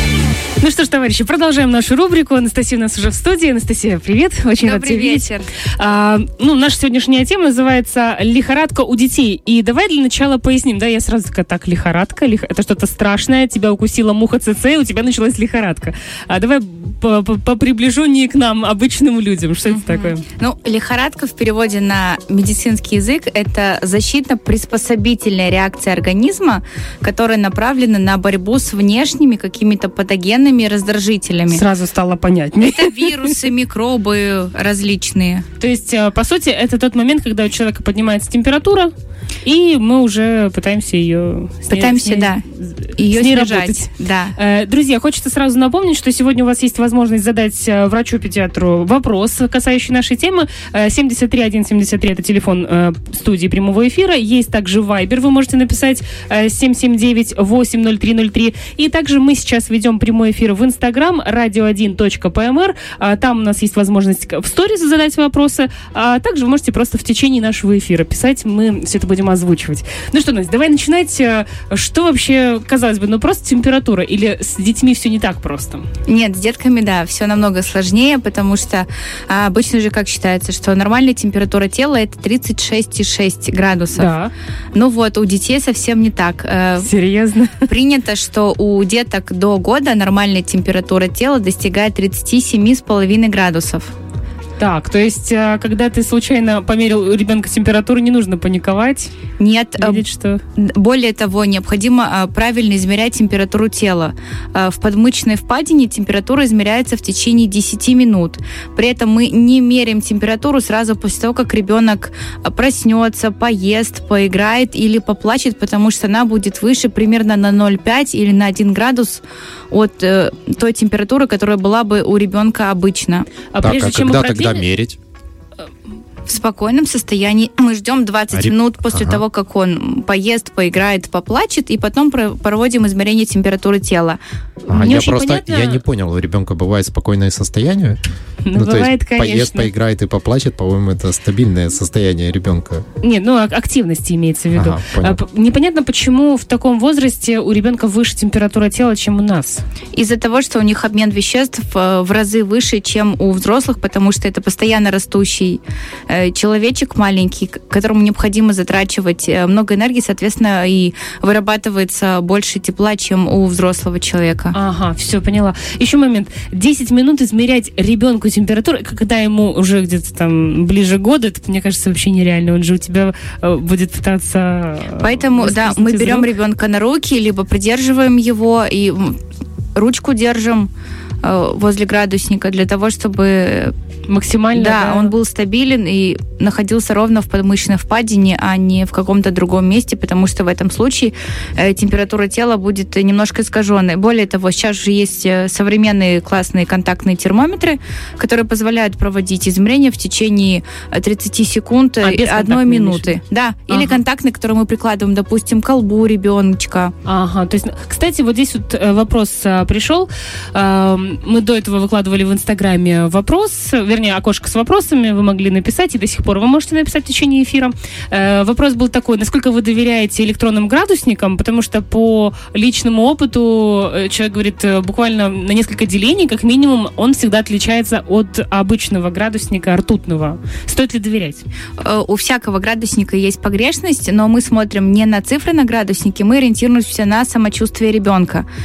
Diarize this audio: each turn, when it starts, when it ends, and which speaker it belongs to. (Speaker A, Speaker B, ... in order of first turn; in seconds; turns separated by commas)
Speaker A: 0.6-20.2, Speaker B: 4.6-5.5, Speaker B: 19.7-31.6, Speaker A: 31.5-33.3, Speaker B: 32.6-35.4, Speaker A: 35.6-38.9, Speaker A: 39.4-75.8, Speaker B: 41.7-42.4, Speaker B: 43.0-44.3, Speaker B: 76.1-84.1, Speaker A: 83.9-84.3, Speaker B: 84.7-86.9, Speaker A: 86.8-87.7, Speaker B: 87.6-93.9, Speaker A: 94.6-99.1, Speaker B: 99.4-100.0, Speaker A: 99.8-100.4, Speaker B: 100.5-123.3, Speaker A: 123.5-124.7, Speaker C: 123.6-125.0, Speaker B: 126.3-134.2, Speaker C: 128.3-129.2, Speaker C: 134.7-138.0, Speaker A: 134.7-135.8, Speaker A: 138.4-139.7, Speaker C: 138.5-142.8, Speaker A: 143.0-149.6, Speaker C: 144.5-145.2, Speaker B: 149.9-164.6, Speaker A: 164.5-176.3, Speaker B: 175.0-179.2, Speaker B: 179.8-180.7, Speaker B: 181.2-183.7, Speaker A: 184.1-185.1, Speaker B: 184.5-206.9, Speaker A: 202.0-203.1, Speaker A: 203.7-204.0, Speaker A: 207.0-231.4, Speaker B: 231.8-238.5